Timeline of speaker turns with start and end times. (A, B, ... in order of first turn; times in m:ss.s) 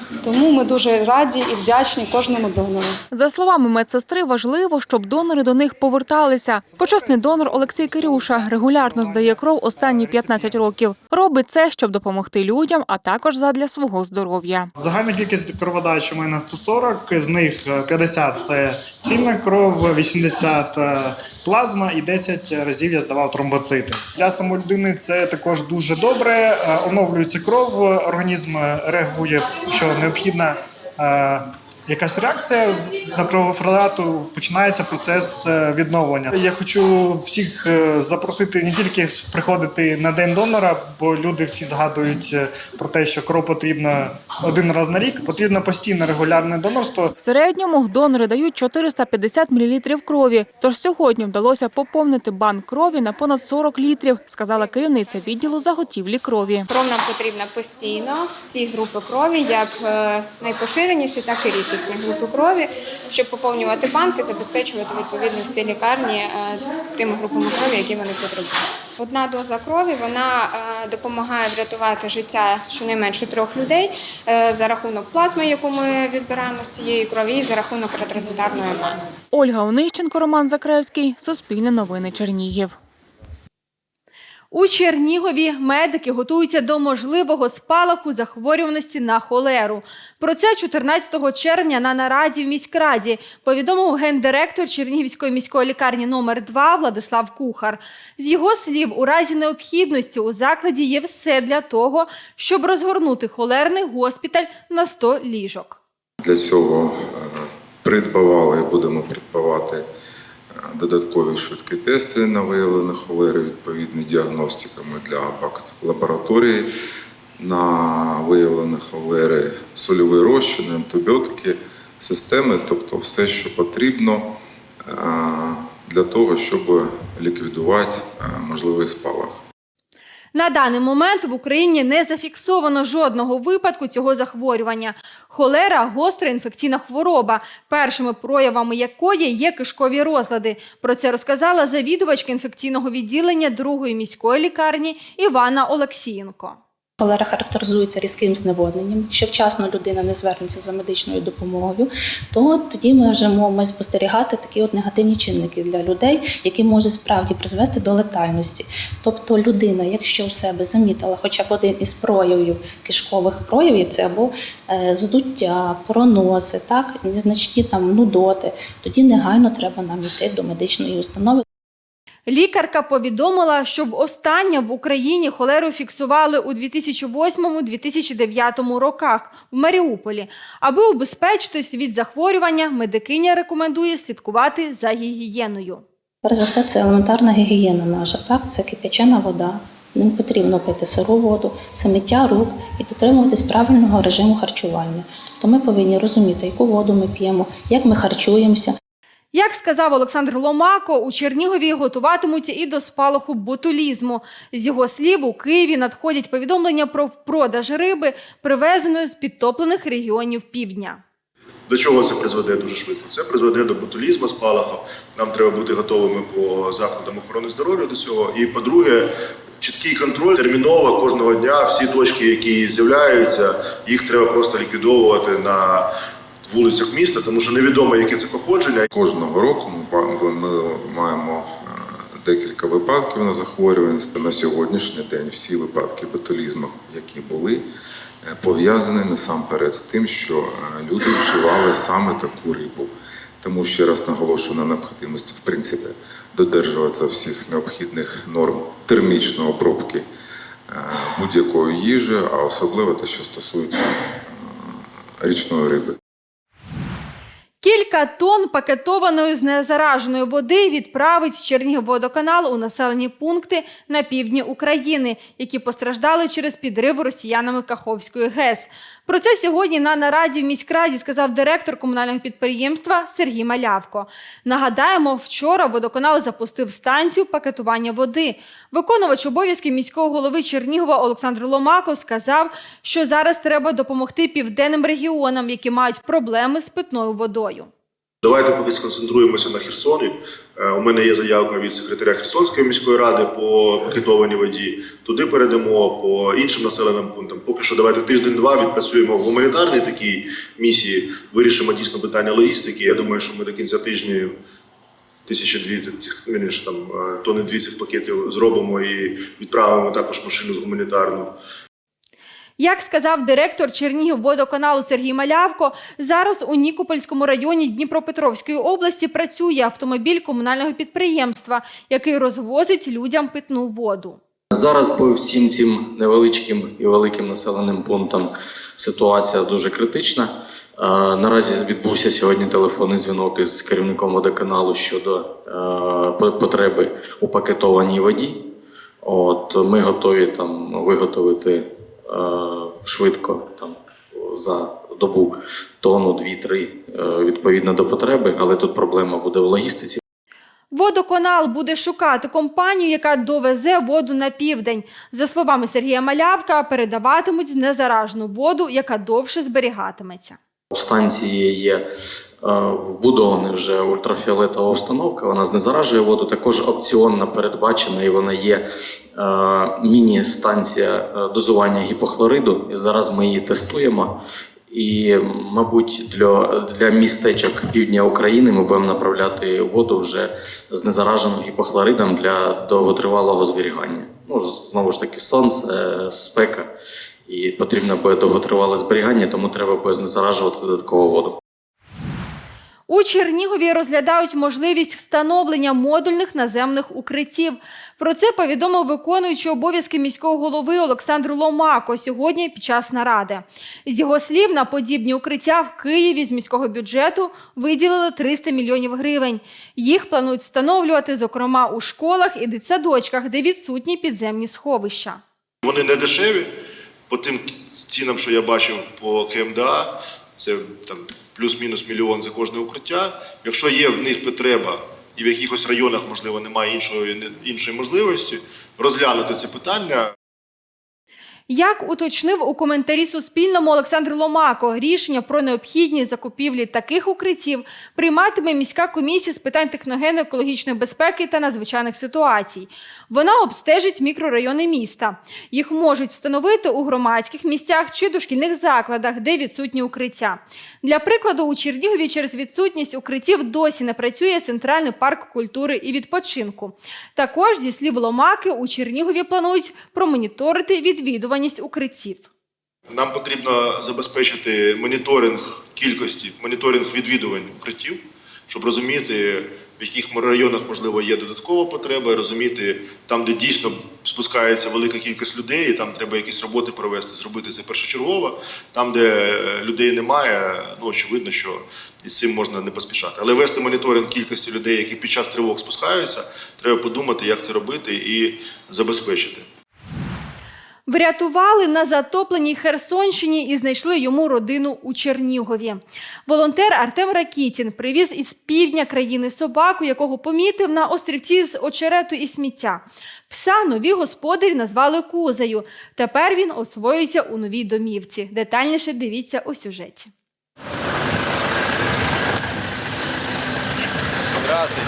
0:00.2-0:03.0 A
0:06.7-0:10.7 B
0:10.1-0:10.9 C
0:11.5-0:14.7 C
0:14.8-0:47.1 B
0:48.5-0:49.0 C
0:50.3-0:53.5 C
0:54.1-0:56.6 C
0:56.7-1:19.1 D
1:19.3-1:22.7 C
1:24.5-1:45.8 E
1:46.2-1:49.9 F
1:50.5-1:56.7 F
1:57.4-2:04.3 F
2:04.8-2:09.4 F
2:10.3-2:26.6 E
2:27.0-2:51.4 G
2:52.3-3:05.8 E
3:06.2-3:18.7 G
3:19.3-3:31.0 E
3:31.7-3:39.1 H
3:39.6-3:45.9 H
3:46.5-3:48.9 H
3:48.9-3:57.6 F
3:58.2-4:02.9 F
4:03.4-4:10.0 F
4:10.7-4:16.0 F
4:17.6-4:47.7 E
4:48.2-5:04.4 H
5:05.3-5:11.3 H
5:12.6-5:24.2 E
5:24.5-5:38.4 I
5:39.0-5:50.0 I
5:50.7-6:00.4 E
6:00.7-6:01.8 I
6:02.4-6:08.6 I
6:09.2-6:14.1 I
6:14.7-6:26.7 I
6:27.3-6:31.4 I
6:32.9-6:55.2 E
6:55.6-6:56.5 H
6:57.1-7:10.1 H
7:11.5-7:42.3 E
7:42.9-8:09.5 H
8:10.9-8:30.1 E